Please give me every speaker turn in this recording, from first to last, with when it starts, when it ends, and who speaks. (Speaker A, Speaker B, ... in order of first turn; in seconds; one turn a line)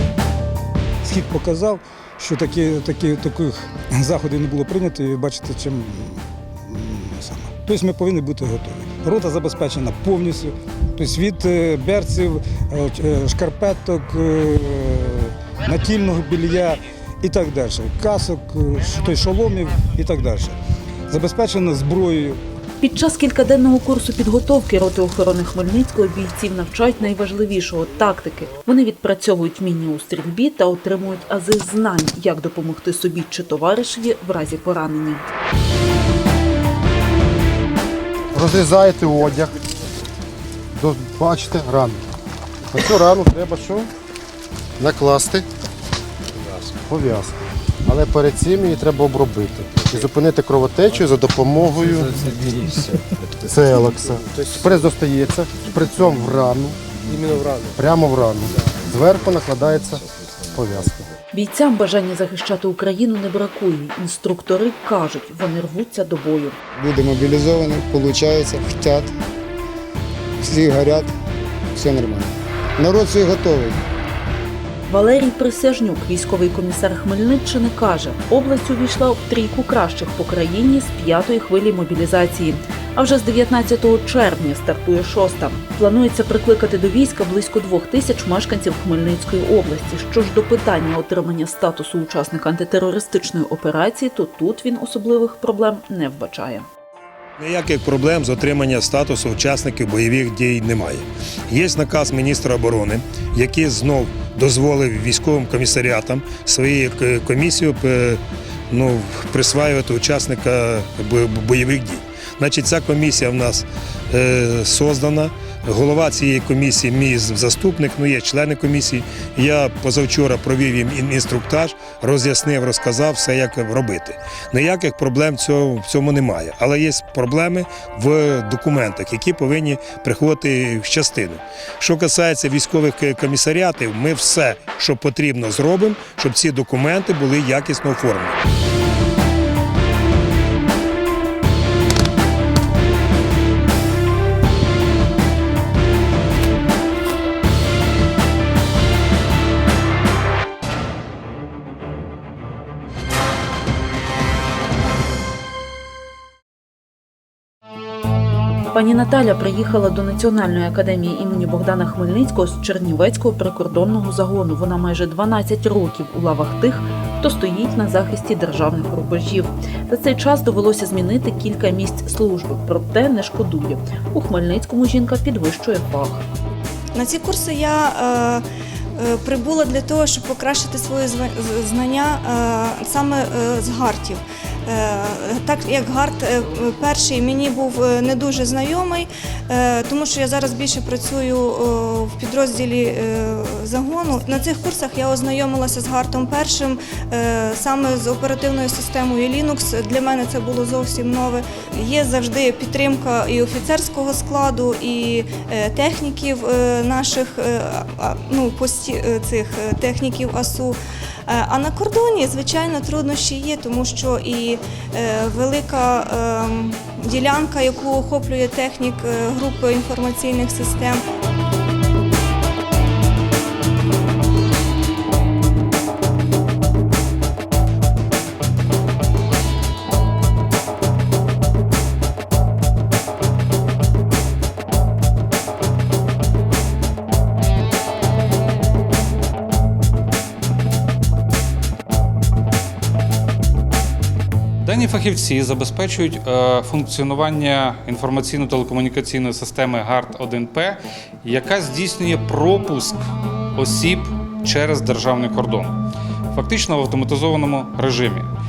Speaker A: 1.0-20.6
Speaker A: 21.1-22.4
Speaker B: 22.8-35.2
Speaker C: 38.3-39.5
Speaker C: 40.8-42.0
Speaker C: 42.7-43.9
Speaker C: 44.8-45.5
Speaker C: 46.9-52.3
Speaker C: 53.4-56.8
Speaker C: 57.7-61.1
Speaker B: 61.3-66.6
Speaker D: 66.8-69.1
Speaker D: 70.4-71.1
Speaker D: 71.8-73.8
Speaker B: 74.9-96.7
Speaker E: 97.4-138.4
Speaker B: 158.7-176.2
Speaker F: 177.0-178.4
Speaker F: 179.0-210.8
Speaker F: 211.3-221.0
Speaker G: 244.6-253.0
Speaker G: 253.6-255.8
Speaker G: 256.3-258.3